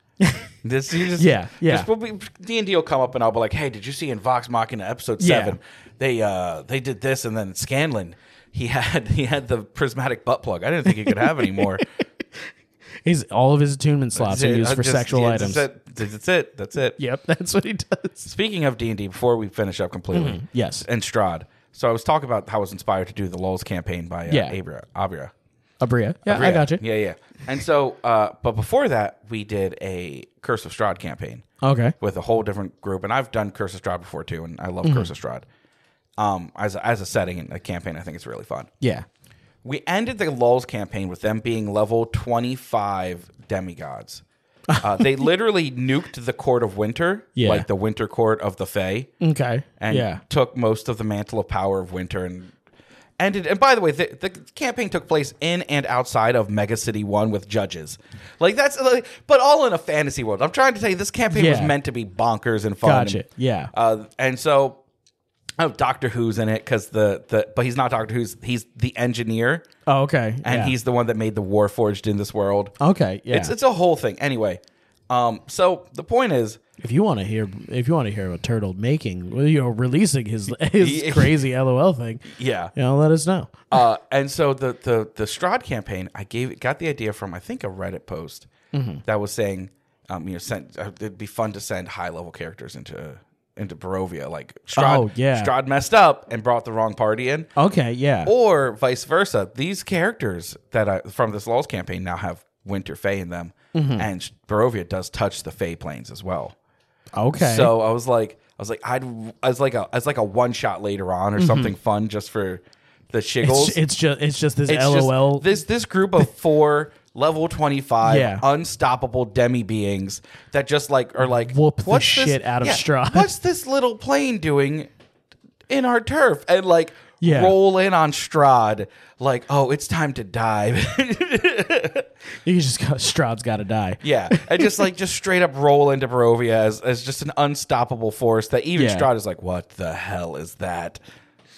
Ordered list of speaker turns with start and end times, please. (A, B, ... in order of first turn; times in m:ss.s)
0:00.2-0:00.5 A
0:00.6-0:11.8 B
0:01.1-0:01.9 A
0:05.2-0:05.6 A
0:10.9-0:12.5 A
0:13.0-0:15.7 A
0:14.1-0:17.0 B
0:17.0-0:18.3 A
0:18.2-0:25.3 B
0:20.1-0:20.8 A
0:24.3-0:24.6 A
0:25.8-0:26.8 A
0:26.2-0:31.4 B
0:31.6-0:31.9 A
0:32.0-0:35.4 B
0:34.8-0:35.1 A
0:36.2-0:38.7 B
0:38.8-0:39.0 A
0:39.6-0:44.2 B
0:44.7-0:45.1 A
0:44.8-0:49.1 B
0:47.4-0:47.6 A
0:49.2-0:50.2 A
0:49.8-0:52.5 B
0:53.2-1:04.8 B
1:01.3-1:01.7 A
1:02.8-1:03.7 A
1:05.6-1:09.6 B
1:09.8-1:10.7 A
1:10.4-1:12.7 B
1:12.8-1:13.5 A
1:13.3-1:16.6 B
1:16.8-1:23.7 A
1:20.8-1:21.4 B
1:22.2-1:22.7 B
1:23.7-1:28.5 B
1:28.7-1:29.0 A
1:29.0-1:37.5 B
1:34.7-1:35.5 A
1:37.6-1:38.3 A
1:38.2-1:46.5 B
1:43.7-1:44.1 A
1:47.1-1:47.7 A
1:47.4-1:53.8 B
1:51.4-1:51.7 A
1:53.4-1:55.6 A
1:54.7-2:04.9 B
1:58.0-1:58.4 A
2:01.4-2:03.3 A
2:05.7-2:12.1 B
2:07.2-2:07.6 A
2:12.4-2:14.8 A
2:14.0-2:21.0 B
2:18.7-2:19.1 A